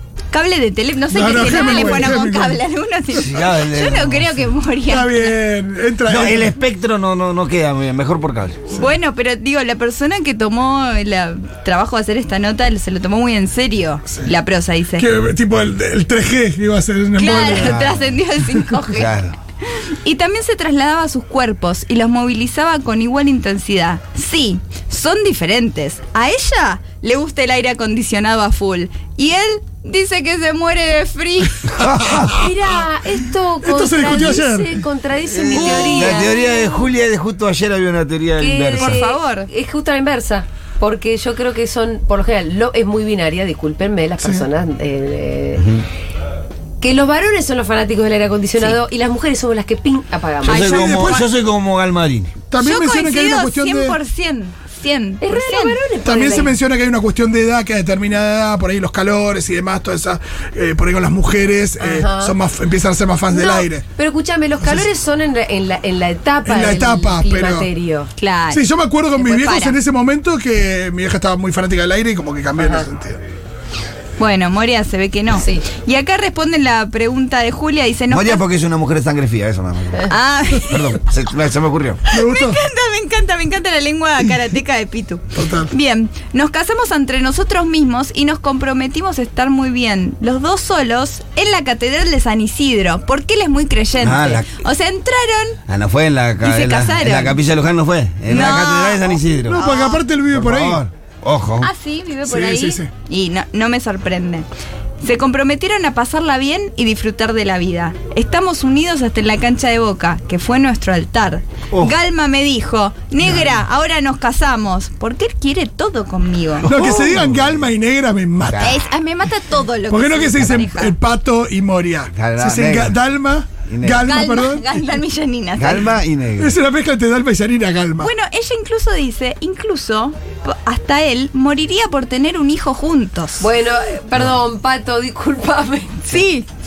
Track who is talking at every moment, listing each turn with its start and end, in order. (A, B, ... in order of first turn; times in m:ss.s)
0:00.3-0:05.4 A
0:01.1-0:02.6 B
0:03.1-0:04.3 C
0:04.9-0:06.5 B
0:06.1-0:08.7 C
0:08.7-0:15.1 A
0:15.0-0:18.8 B
0:17.2-0:19.1 A
0:18.9-0:19.4 C
0:19.7-0:31.8 A
0:31.8-0:32.3 C
0:32.1-0:32.4 B
0:32.3-0:36.9 D
0:33.6-0:34.8 B
0:35.5-0:39.0 C
0:35.5-0:36.3 A
0:38.4-0:45.8 D
0:38.8-0:39.5 A
0:46.8-0:51.1 D
0:50.4-0:52.3 C
0:50.5-0:51.3 B
0:52.5-0:54.0 B
0:52.6-0:55.8 A
0:55.2-0:56.6 D
0:56.0-1:03.9 B
1:01.8-1:02.4 D
1:03.3-1:08.1 D
1:04.6-1:04.9 B
1:06.4-1:07.7 B
1:08.2-1:08.6 A
1:08.5-1:13.2 B
1:09.2-1:09.8 A
1:12.6-1:12.9 D
1:14.2-1:18.4 A
1:15.4-1:15.7 D
1:18.1-1:22.0 C
1:20.1-1:21.0 A
1:22.1-1:35.6 A
1:22.1-1:22.6 B
1:25.3-1:25.7 B
1:34.0-1:34.6 C
1:35.7-1:39.6 C
1:36.4-1:37.4 A
1:38.3-1:40.0 A
1:39.5-1:40.8 B
1:40.3-1:41.7 C
1:41.6-1:44.5 A
1:42.2-1:42.9 B
1:45.0-1:56.7 A
1:53.2-1:53.6 B
1:56.6-1:58.8 B
1:56.7-1:57.6 C
1:58.5-1:58.8 C
1:58.6-2:01.0 A
1:59.9-2:04.7 B
2:02.1-2:03.0 C
2:03.7-2:04.1 C
2:04.0-2:05.9 A
2:05.6-2:06.6 C
2:06.4-2:08.1 B
2:08.0-2:13.5 A
2:13.4-2:16.1 D
2:16.1-2:16.5 A